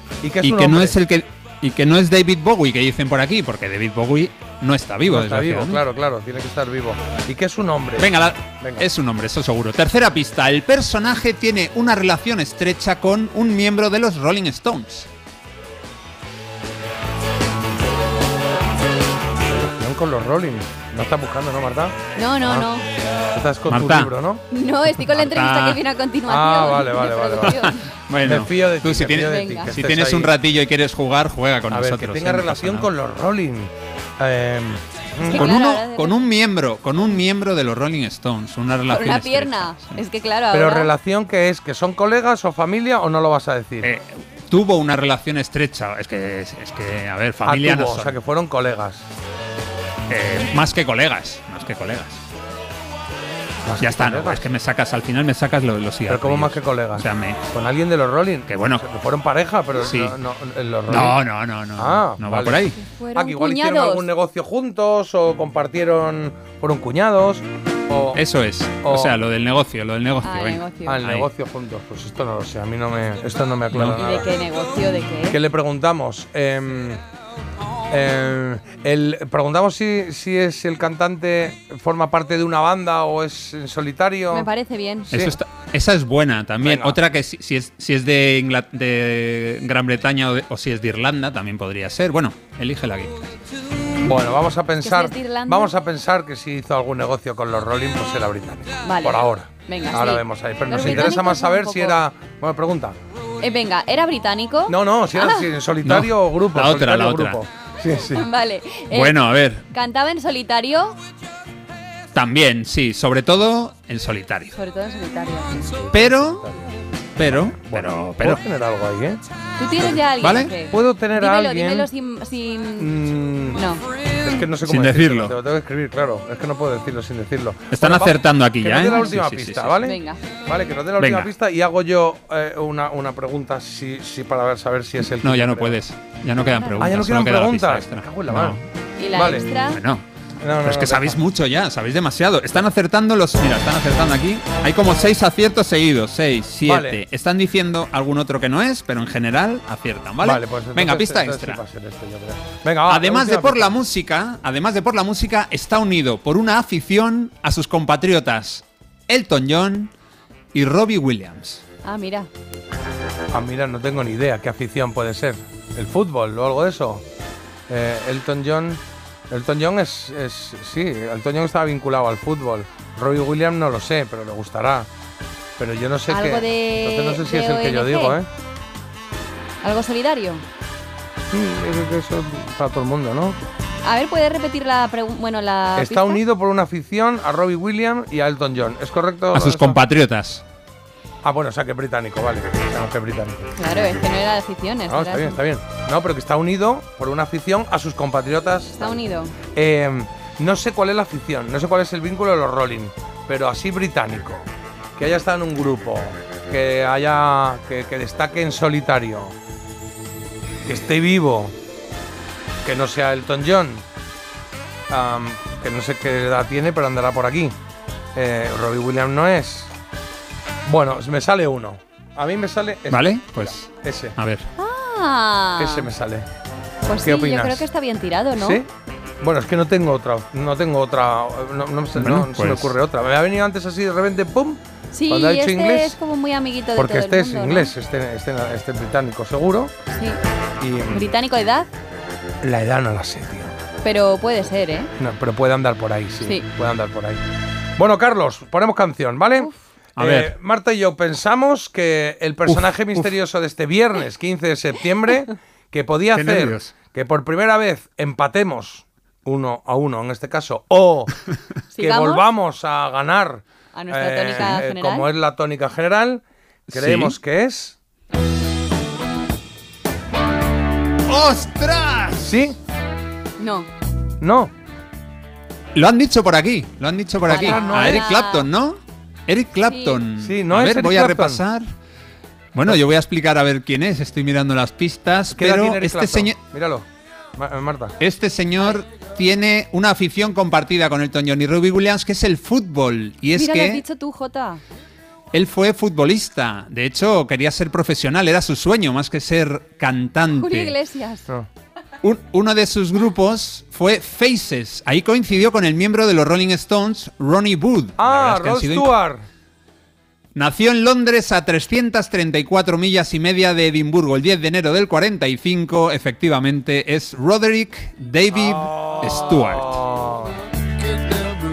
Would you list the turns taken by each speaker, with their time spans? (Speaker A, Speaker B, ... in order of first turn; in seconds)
Speaker A: 0.2-1.0, 5.1-8.9, 19.5-22.7, 23.3-24.4, 26.3-27.6, 28.2-30.3, 31.7-35.5, 40.5-43.9, 47.4-49.1, 53.6-54.4, 56.1-61.2, 61.8-68.2, 68.8-69.2, 70.8-74.3, 75.3-77.0, 77.9-84.5, 85.1-85.4, 86.6-87.0, 94.0-103.0, 104.7-108.3, 115.7-119.2, 120.7-121.9, 122.8-135.8, 136.8-138.6, 139.1-139.5, 140.4-141.2, 146.6-147.0, 150.2-153.8, 163.3-167.0, 167.7-174.9, 175.6-178.3, 181.3-183.4, 185.8-189.8, 191.2-193.5, 194.9-199.0, 199.5-204.5, 205.0-209.3, 210.7-211.6, 212.6-213.8, 214.9-217.6, 218.1-219.7, 220.6-224.2, 225.6-226.3, 227.0-227.6, 228.4-228.7, 229.2-236.0, 236.8-239.7, 240.6-241.1, 242.4-243.6, 245.0-247.2, 247.8-261.2, 261.8-267.8, 272.2-272.6, 274.2-274.5, 277.3-278.1, 280.2-281.4, 285.3-288.0, 308.0-309.2, 318.3-320.4
Speaker B: 0.4-5.8, 8.0-15.1, 23.7-24.1, 25.1-25.8, 27.4-32.9, 35.4-40.0, 43.8-48.1, 50.1-52.2, 53.8-57.4, 58.5-58.8, 59.7-60.1, 60.9-62.8, 68.1-71.3, 73.7-74.0, 85.1-93.4, 100.8-101.1, 105.8-107.4, 108.9-109.7, 112.1-114.5, 115.9-116.5, 117.2-118.4, 120.2-120.5, 124.6-125.3, 127.7-129.8, 131.0-131.3, 135.0-138.6, 139.7-140.1, 140.6-151.6, 152.9-159.9, 160.5-161.6, 189.3-190.4, 222.9-224.5, 231.9-232.8, 250.0-250.3, 252.5-253.1, 256.1-256.7, 264.4-264.6, 266.7-267.2, 271.1-272.3, 275.8-281.7, 282.5-286.4, 288.0-293.8, 295.3-300.8, 302.0-308.9, 310.4-319.8
Speaker C: 22.2-22.9, 24.5-27.8, 29.2-29.7, 35.2-36.2, 38.9-40.9, 62.8-64.1, 70.2-71.0, 74.0-75.4, 84.3-85.1, 94.8-95.7, 98.8-102.0, 103.4-105.5, 108.1-111.0, 114.5-115.7, 119.6-122.9, 123.5-123.8, 129.8-130.2, 136.5-136.9, 139.0-139.8, 161.8-162.3, 176.1-178.2, 179.6-180.4, 183.8-186.2, 193.6-195.4, 198.8-199.3, 224.6-225.9, 226.8-228.6, 234.9-237.7, 239.9-240.2, 240.9-241.7, 243.8-244.9, 261.7-262.2, 263.7-265.1, 273.4-273.7, 277.3-278.5, 279.7-280.0, 293.4-294.6, 300.4-301.2